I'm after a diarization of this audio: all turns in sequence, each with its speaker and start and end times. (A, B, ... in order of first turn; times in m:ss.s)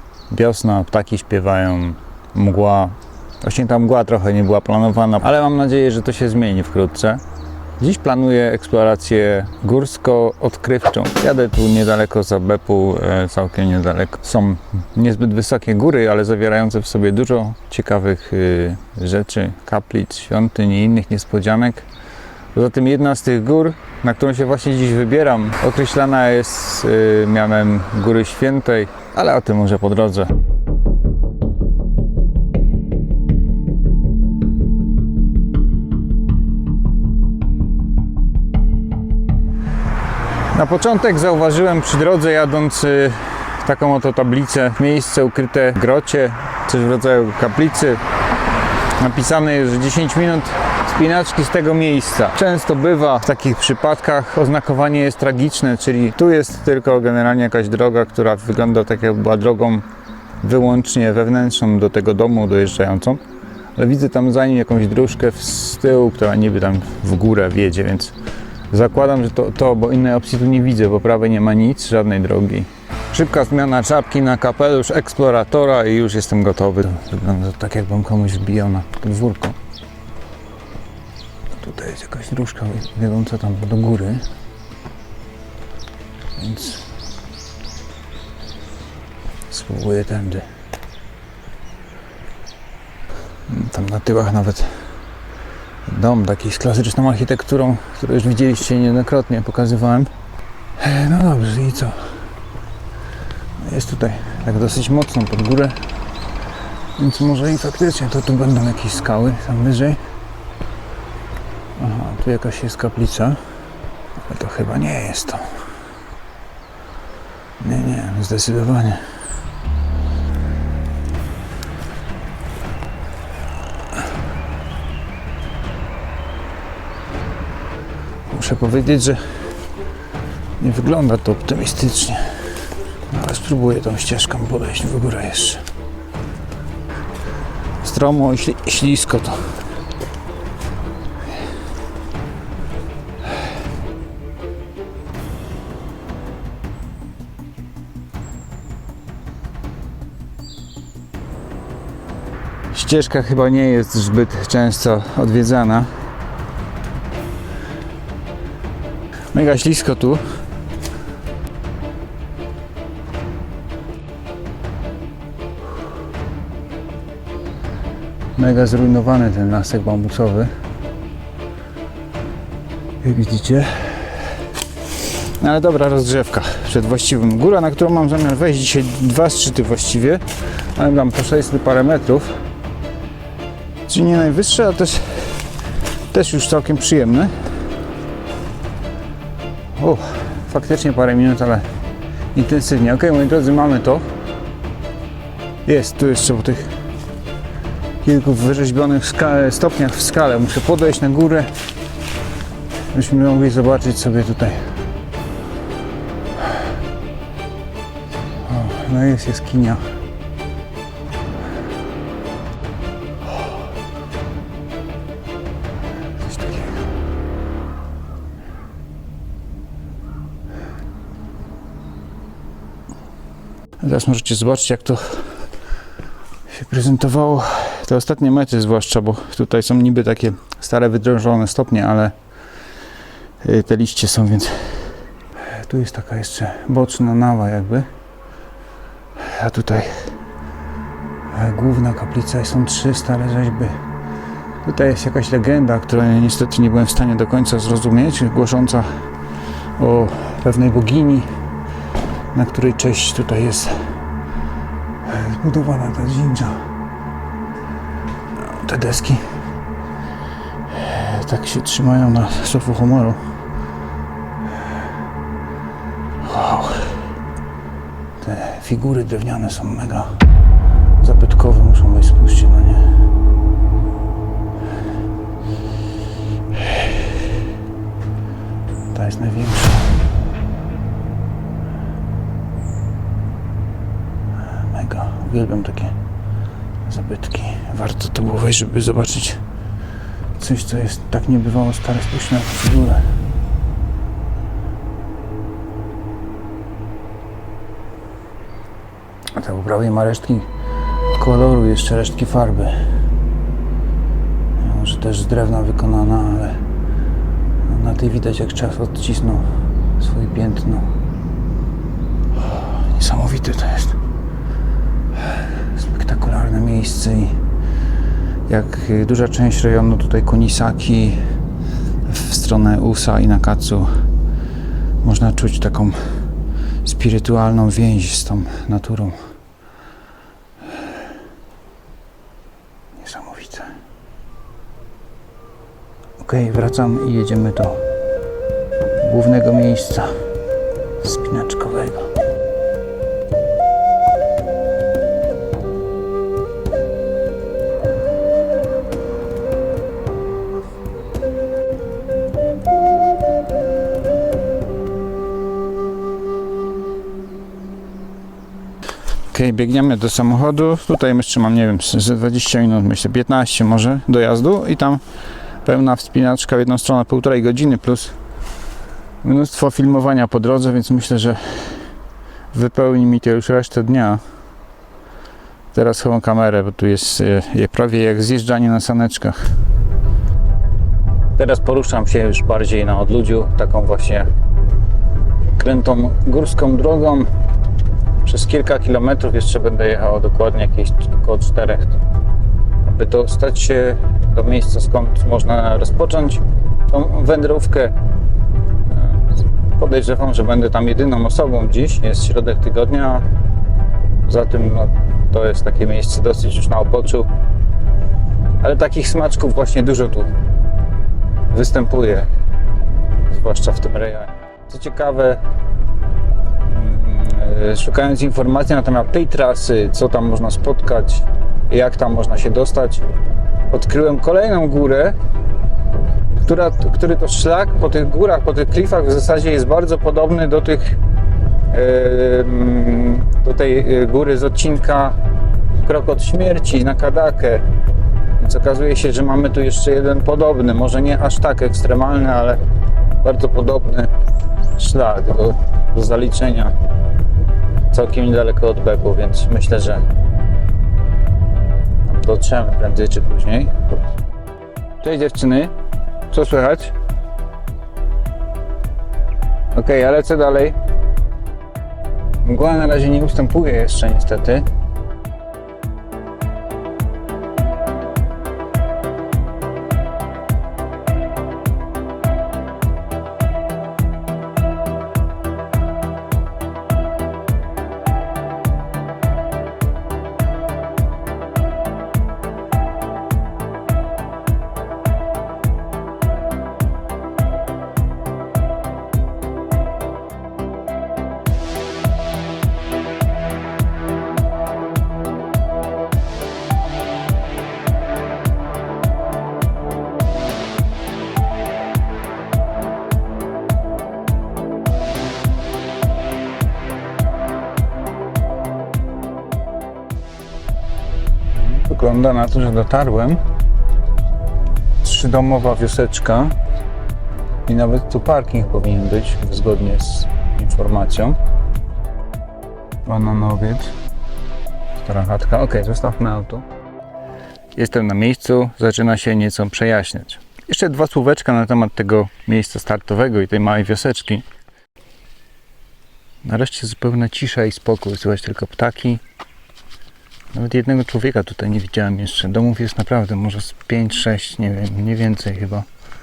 0:00.3-0:07.2 A
0:07.8-0:21.9 A
0:22.5-0:30.3 A
0:40.5-0:48.0 A
0:49.0-0:59.8 A
1:00.4-1:03.2 A
1:03.7-1:08.1 A
1:08.7-1:19.6 A
1:21.5-1:24.2 A
1:26.4-1:26.8 A
1:29.5-1:30.4 A
1:33.5-1:34.9 A
1:35.8-1:40.1 A
1:40.8-1:42.1 A
1:43.6-1:45.8 A
1:47.0-1:50.0 A
1:51.8-1:53.4 A
1:54.2-1:55.6 A
1:57.6-1:59.0 A
2:08.3-2:09.5 A
2:10.6-2:12.4 A
2:13.1-2:15.6 A
2:17.8-2:19.5 A
2:32.7-2:35.9 A
2:39.3-2:40.2 A
2:48.4-2:50.5 A
2:53.0-2:54.4 A
2:55.0-3:02.4 A
3:03.9-3:05.5 A
3:06.1-3:07.3 A
3:09.8-3:11.6 A
3:12.3-3:14.0 A
3:15.6-3:16.7 A
3:18.0-3:21.5 A
3:22.9-3:24.6 A
3:28.4-3:29.8 A
3:36.2-3:36.8 A
3:43.8-3:45.4 A
3:46.5-3:52.1 A
3:53.4-3:57.9 A
3:59.2-4:00.1 A
4:01.3-4:03.8 A
4:04.6-4:08.9 A
4:09.8-4:11.3 A
4:12.3-4:13.9 A
4:15.0-4:16.6 A
4:18.4-4:19.3 A
4:20.7-4:23.2 A
4:26.2-4:27.1 A
4:28.2-4:30.2 A
4:31.0-4:32.9 A
4:36.6-4:36.9 A
4:38.9-4:39.9 A
4:44.4-4:46.0 A
4:46.8-4:49.4 A
4:50.4-4:53.1 A
4:59.4-5:00.5 A
5:01.1-5:02.8 A
5:04.6-5:06.6 A
5:07.6-5:10.9 A
5:12.4-5:14.0 A
5:15.4-5:17.4 A
5:18.5-5:21.2 A
5:22.0-5:23.9 A
5:25.0-5:26.1 A
5:26.8-5:29.2 A
5:33.0-5:33.7 A
5:36.2-5:37.8 A
5:39.0-5:40.1 A
5:41.0-5:42.1 A
5:59.3-6:05.0 A
6:05.6-6:08.2 A
6:09.2-6:11.9 A
6:12.5-6:14.2 A
6:15.7-6:19.4 A
6:21.4-6:24.3 A
6:25.6-6:27.3 A
6:28.2-6:32.0 A
6:32.8-6:37.9 A
6:38.8-6:43.2 A
6:44.2-6:47.3 A
6:48.6-6:50.3 A
6:51.5-6:52.3 A
6:53.2-6:55.4 A
6:56.7-7:03.1 A
7:03.7-7:05.2 A
7:06.4-7:11.0 A
7:11.7-7:15.2 A
7:15.8-7:17.6 A
7:18.4-7:22.6 A
7:23.2-7:24.1 A
7:24.8-7:26.7 A
7:27.9-7:30.0 A
7:32.0-7:33.7 A
7:35.0-7:35.7 A
7:36.3-7:36.9 A
7:39.7-7:40.8 A
7:42.4-7:44.6 A
8:31.6-8:33.4 A
8:35.0-8:36.5 A
8:37.6-8:41.4 A
8:43.0-8:43.9 A
8:45.0-8:46.6 A
8:47.8-8:54.4 A
8:56.4-8:59.2 A
9:00.5-9:05.8 A